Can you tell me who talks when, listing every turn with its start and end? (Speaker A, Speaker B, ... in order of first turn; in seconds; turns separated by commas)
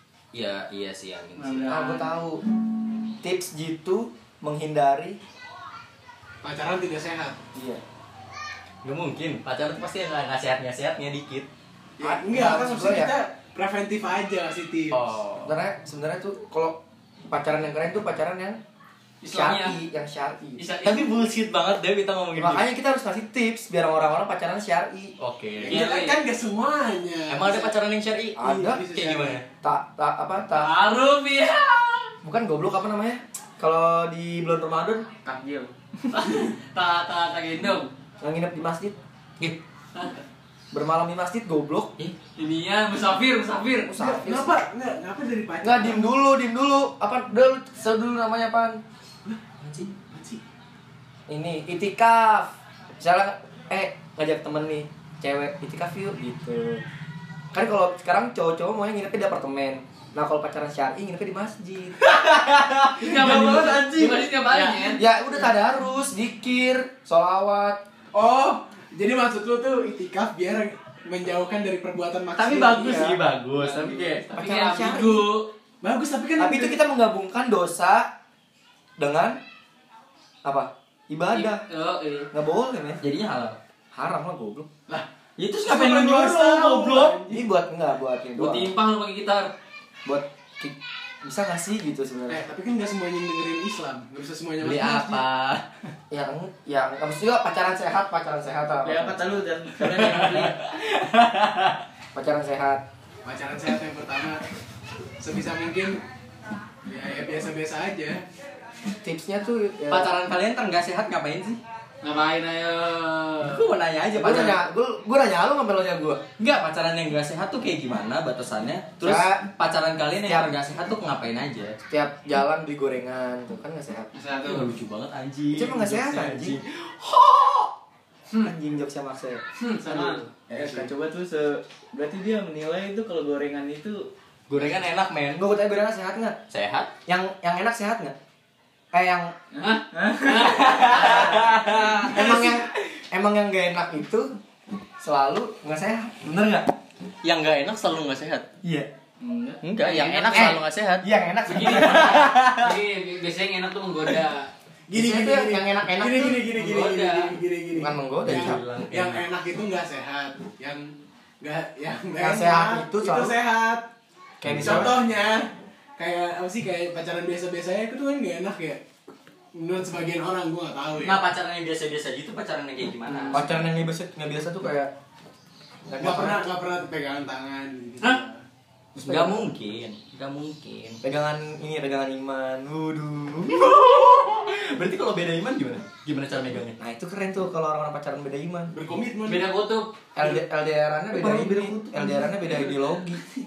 Speaker A: 0.3-1.8, Speaker B: 1.7-2.4, Speaker B: 3.2-5.2, Speaker C: 6.4-7.4, Speaker B: 7.5-7.8, Speaker A: 8.8-11.5, Speaker C: 12.0-15.2, Speaker B: 12.0-13.1, Speaker A: 14.9-15.6, Speaker B: 15.4-18.6, Speaker A: 19.2-19.8, Speaker B: 19.3-21.1, Speaker A: 20.6-22.7, Speaker B: 22.3-25.1, Speaker A: 25.2-25.8, Speaker C: 25.6-27.7, Speaker D: 25.7-26.2, Speaker A: 27.3-29.4, Speaker B: 28.4-28.9, Speaker C: 28.4-29.4, Speaker B: 29.6-30.7, Speaker D: 30.5-32.1, Speaker B: 32.2-35.1, Speaker E: 35.2-35.7, Speaker D: 36.1-37.9, Speaker B: 38.2-39.0, Speaker B: 40.7-42.0, Speaker D: 42.4-43.9, Speaker B: 43.8-44.6, Speaker C: 44.0-46.1, Speaker B: 45.6-48.8, Speaker A: 49.6-49.9, Speaker C: 50.1-50.4, Speaker B: 51.3-56.8, Speaker B: 57.5-62.2, Speaker D: 62.9-65.0, Speaker E: 63.0-64.3, Speaker C: 63.0-63.8, Speaker A: 63.1-63.6, Speaker B: 64.9-67.8, Speaker C: 68.1-73.2, Speaker A: 72.4-74.2, Speaker B: 72.7-73.2, Speaker D: 73.5-75.5, Speaker E: 73.6-74.0, Speaker B: 74.3-75.3, Speaker C: 75.8-76.8, Speaker B: 76.4-78.1, Speaker B: 79.0-79.4, Speaker B: 80.4-81.7, Speaker D: 81.3-82.3, Speaker B: 82.3-83.0, Speaker A: 83.0-83.6, Speaker B: 83.9-84.7, Speaker A: 85.4-87.3, Speaker C: 85.6-87.3, Speaker B: 86.9-88.8, Speaker D: 88.6-89.3, Speaker B: 90.0-92.4, Speaker C: 92.3-95.3, Speaker A: 94.6-95.7, Speaker B: 96.1-99.4, Speaker E: 98.8-100.8, Speaker A: 99.8-100.6, Speaker B: 102.1-102.8, Speaker C: 103.2-104.5, Speaker C: 105.2-106.0, Speaker C: 106.8-108.2, Speaker B: 109.0-110.1, Speaker A: 109.9-111.6, Speaker E: 110.0-111.5, Speaker D: 112.0-113.7, Speaker A: 113.4-114.6, Speaker B: 114.1-116.2, Speaker A: 116.4-121.8, Speaker B: 119.0-119.5, Speaker B: 120.2-120.5, Speaker B: 121.9-124.1, Speaker D: 124.1-124.7, Speaker A: 124.4-127.7, Speaker B: 125.5-126.6, Speaker B: 128.3-129.4, Speaker D: 129.6-130.3, Speaker E: 129.8-134.7, Speaker A: 134.5-135.5, Speaker B: 135.3-136.4, Speaker A: 136.5-136.9, Speaker B: 137.1-138.2, Speaker B: 138.9-139.3, Speaker D: 139.5-141.3, Speaker E: 139.9-140.7, Speaker A: 140.3-142.4, Speaker B: 140.7-144.3, Speaker B: 145.0-146.7, Speaker A: 147.2-148.5, Speaker B: 148.6-148.9, Speaker E: 149.2-149.6, Speaker A: 149.6-152.3, Speaker D: 149.8-150.6, Speaker B: 150.3-152.7, Speaker D: 151.5-154.5, Speaker C: 154.9-163.9, Speaker B: 154.9-156.5, Speaker D: 156.5-157.4, Speaker B: 157.7-158.6, Speaker A: 158.2-159.3, Speaker B: 162.1-163.3, Speaker B: 164.4-165.0, Speaker C: 164.4-168.8, Speaker A: 164.4-164.9, Speaker C: 169.5-171.2, Speaker A: 171.0-173.5, Speaker C: 173.1-173.6, Speaker B: 173.3-174.9, Speaker B: 175.9-176.4, Speaker C: 176.0-178.4, Speaker A: 178.9-181.0, Speaker B: 179.0-179.5, Speaker B: 181.0-183.9, Speaker A: 183.5-186.8, Speaker B: 186.8-188.8, Speaker C: 188.7-189.6, Speaker D: 189.2-189.9, Speaker B: 190.1-193.2